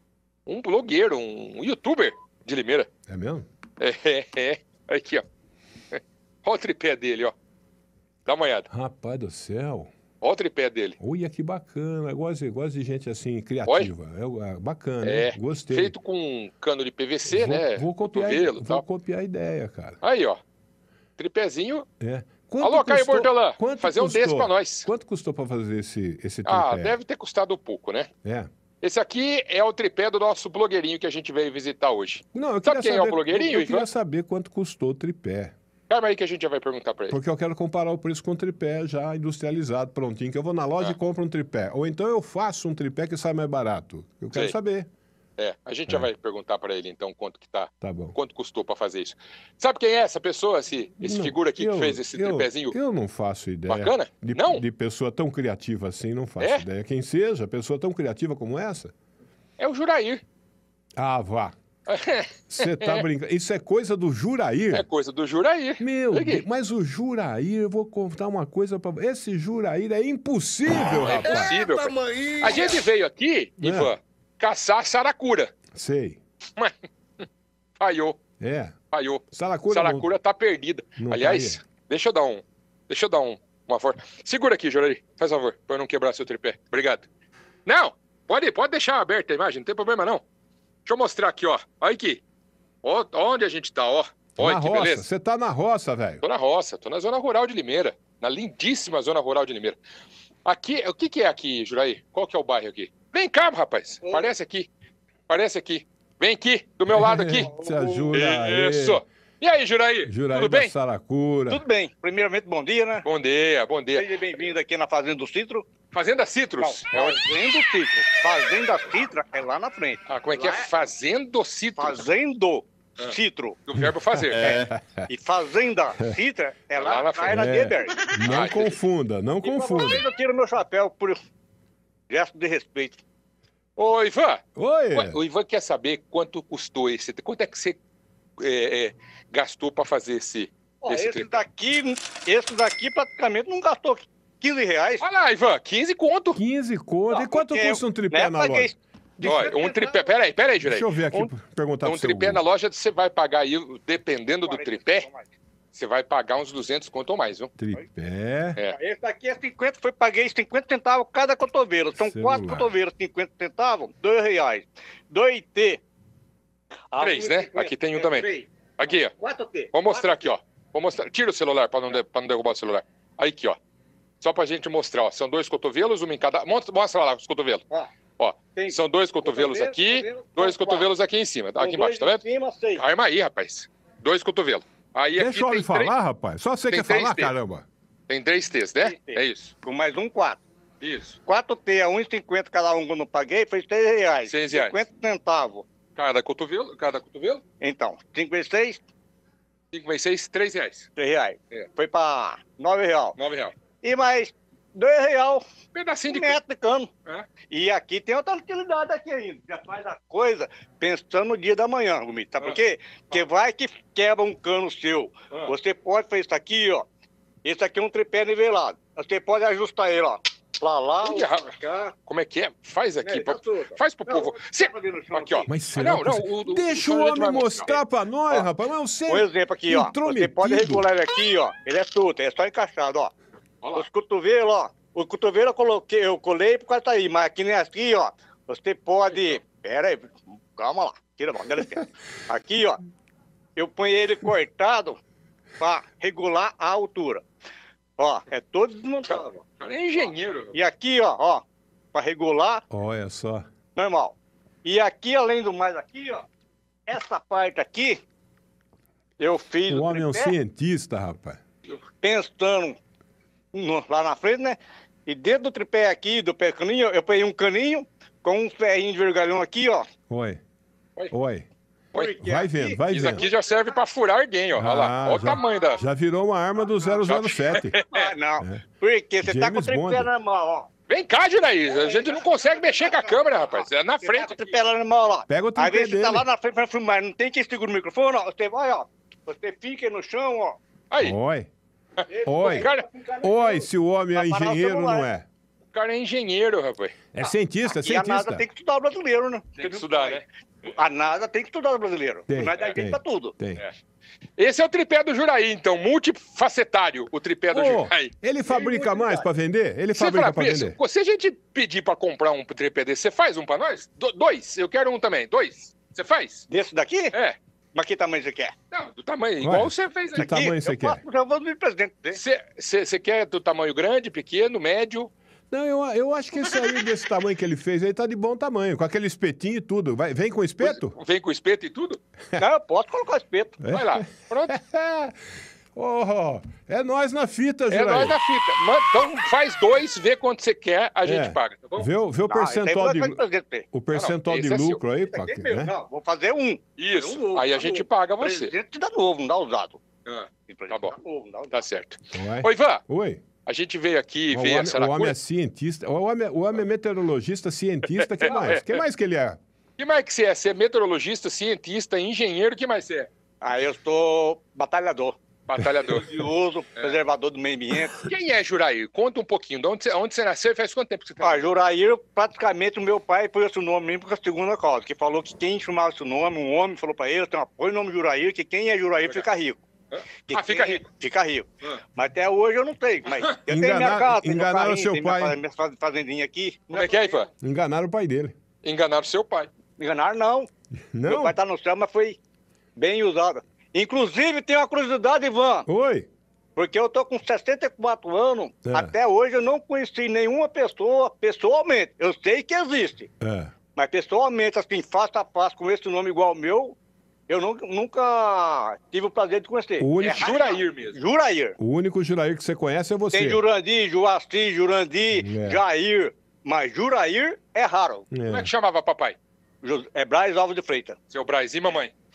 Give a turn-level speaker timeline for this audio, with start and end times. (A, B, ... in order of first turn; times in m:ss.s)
0:00.5-0:02.9 A
0:03.1-0:03.5 B
0:03.8-0:05.2 A
0:05.9-0:07.4 A
0:08.3-0:08.7 A
0:08.7-0:09.9 B
0:10.2-0:11.0 A
0:11.0-0:15.9 B
0:13.7-0:13.9 A
0:15.0-0:18.8 A
0:17.3-0:20.0 B
0:20.0-0:20.4 A
0:21.2-0:21.9 A
0:22.0-0:27.0 B
0:22.6-0:24.9 A
0:26.4-0:28.1 A
0:28.2-0:28.5 B
0:28.8-0:33.9 A
0:32.3-0:35.5 B
0:35.9-0:37.2 A
0:37.1-0:44.9 B
0:45.4-0:52.8 A
0:47.8-0:48.2 B
0:51.0-0:58.9 B
0:53.7-0:54.6 A
0:56.4-0:56.6 A
0:59.6-1:00.2 A
1:01.0-1:01.6 B
1:01.9-1:03.0 A
1:02.5-1:04.9 B
1:04.7-1:06.4 A
1:05.8-1:11.6 B
1:11.0-1:15.5 A
1:13.6-1:13.9 B
1:15.7-1:16.2 B
1:16.6-1:17.2 A
1:17.8-1:18.2 A
1:18.4-1:18.8 B
1:18.9-1:27.1 A
1:19.3-1:20.1 B
1:21.0-1:21.6 B
1:27.7-1:30.2 A
1:30.9-1:32.2 A
1:32.8-1:35.1 A
1:34.4-1:36.2 B
1:36.2-1:39.8 A
1:40.4-1:44.7 A
1:44.1-1:44.3 C
1:45.3-1:47.5 A
1:46.9-1:49.0 B
1:47.4-1:48.2 C
1:48.1-1:50.7 A
1:50.1-1:51.6 B
1:51.5-1:53.0 C
1:53.0-1:54.1 A
1:54.0-1:55.7 C
1:55.9-1:57.2 A
1:56.6-2:00.7 C
2:00.1-2:02.1 A
2:01.8-2:03.6 C
2:03.7-2:04.6 A
2:03.8-2:05.1 B
2:05.1-2:08.1 C
2:06.8-2:07.5 A
2:07.3-2:10.1 B
2:08.2-2:08.7 A
2:09.4-2:11.2 C
2:12.1-2:13.0 C
2:13.8-2:17.8 A
2:14.6-2:15.2 B
2:18.4-2:21.4 A
2:20.8-2:25.0 C
2:25.0-2:26.4 A
2:26.4-2:28.7 B
2:27.1-2:30.1 C
2:29.2-2:31.3 A
2:30.6-2:32.4 B
2:31.8-2:35.1 A
2:34.4-2:35.3 C
2:35.7-2:37.5 A
2:37.6-2:38.6 B
2:38.6-2:45.8 C
2:42.0-2:42.7 B
2:46.9-2:50.3 C
2:47.0-2:49.1 A
2:49.7-2:53.6 A
2:54.2-2:57.6 A
2:58.2-3:02.2 A
2:58.6-3:00.9 C
3:01.6-3:02.8 C
3:02.8-3:05.9 A
3:05.2-3:07.6 B
3:06.7-3:07.3 A
3:08.1-3:09.5 A
3:08.8-3:10.4 C
3:10.8-3:11.2 A
3:11.3-3:15.7 C
3:14.3-3:14.8 A
3:16.0-3:17.4 A
3:17.6-3:18.8 C
3:19.7-3:20.9 A
3:21.0-3:23.2 C
3:23.2-3:23.5 A
3:23.8-3:25.4 C
3:25.7-3:26.4 A
3:26.1-3:26.9 C
3:27.5-3:36.9 C
3:37.4-3:41.9 C
3:41.0-3:41.6 A
3:42.1-3:47.8 A
3:43.0-3:45.5 C
3:45.5-3:50.9 B
3:49.1-3:53.1 C
3:53.8-4:02.8 C
4:03.6-4:05.0 C
4:05.6-4:07.2 C
4:08.0-4:09.4 C
4:09.1-4:10.6 A
4:10.5-4:11.4 C
4:11.9-4:12.6 C
4:12.7-4:13.5 B
4:13.8-4:16.2 C
4:16.9-4:18.0 C
4:19.2-4:20.4 C
4:19.7-4:21.4 B
4:22.0-4:22.8 C
4:23.5-4:29.9 C
4:30.1-4:30.4 B
4:31.1-4:31.5 B
4:32.0-4:33.3 C
4:32.2-4:33.2 B
4:32.9-4:35.8 A
4:34.6-4:37.8 B
4:36.9-4:38.1 A
4:37.9-4:40.7 C
4:39.2-4:40.1 B
4:40.9-4:44.5 A
4:41.7-4:50.6 C
4:45.3-4:46.3 B
4:50.9-4:51.2 A
4:51.0-4:51.5 B
4:52.0-4:52.9 A
4:52.1-4:55.1 C
4:52.2-4:52.7 B
4:53.2-4:55.3 B
4:55.7-4:57.0 A
4:57.1-4:58.4 B
4:57.7-5:03.4 C
4:59.6-5:00.2 A
5:02.3-5:03.6 B
5:04.4-5:08.1 A
5:07.5-5:10.8 B
5:08.4-5:09.3 C
5:09.9-5:16.5 A
5:16.5-5:17.2 C
5:17.7-5:18.5 C
5:18.7-5:20.3 A
5:19.4-5:21.0 B
5:20.2-5:22.2 C
5:22.1-5:25.1 A
5:25.5-5:31.0 B
5:30.6-5:32.0 A
5:32.4-5:33.6 C
5:33.6-5:38.2 B
5:33.7-5:34.6 A
5:37.7-5:41.9 A
5:41.0-5:43.2 B
5:42.3-5:43.7 C
5:43.7-5:45.7 B
5:43.9-5:44.8 A
5:45.1-5:49.8 C
5:46.8-5:48.5 A
5:50.0-5:50.9 A
5:50.5-5:51.6 C
5:51.5-5:52.8 A
5:52.1-5:53.2 B
5:53.5-5:55.2 A
5:54.3-5:59.4 B
5:58.0-5:58.8 A
5:58.2-5:58.6 C
5:59.8-6:03.1 A
6:03.4-6:05.2 C
6:05.5-6:06.1 A
6:05.9-6:08.0 C
6:08.0-6:11.4 A
6:11.2-6:19.6 C
6:19.9-6:20.8 A
6:20.3-6:27.2 C
6:23.5-6:25.4 B
6:26.7-6:27.3 A
6:27.4-6:28.3 B
6:28.6-6:29.5 A
6:29.8-6:30.5 C
6:30.9-6:31.4 B
6:31.1-6:32.2 C
6:32.8-6:35.7 C
6:35.7-6:36.1 B
6:36.6-6:43.1 C
6:38.7-6:38.9 B
6:43.2-6:43.5 B
6:43.8-6:46.8 C
6:47.3-6:51.6 C
6:49.8-6:50.3 B
6:50.0-6:51.0 A
6:51.6-6:53.4 B
6:53.1-6:58.1 C
6:55.2-6:55.6 B
6:58.1-6:58.5 B
6:58.3-6:59.2 A
6:59.6-7:01.0 C
7:01.1-7:01.9 A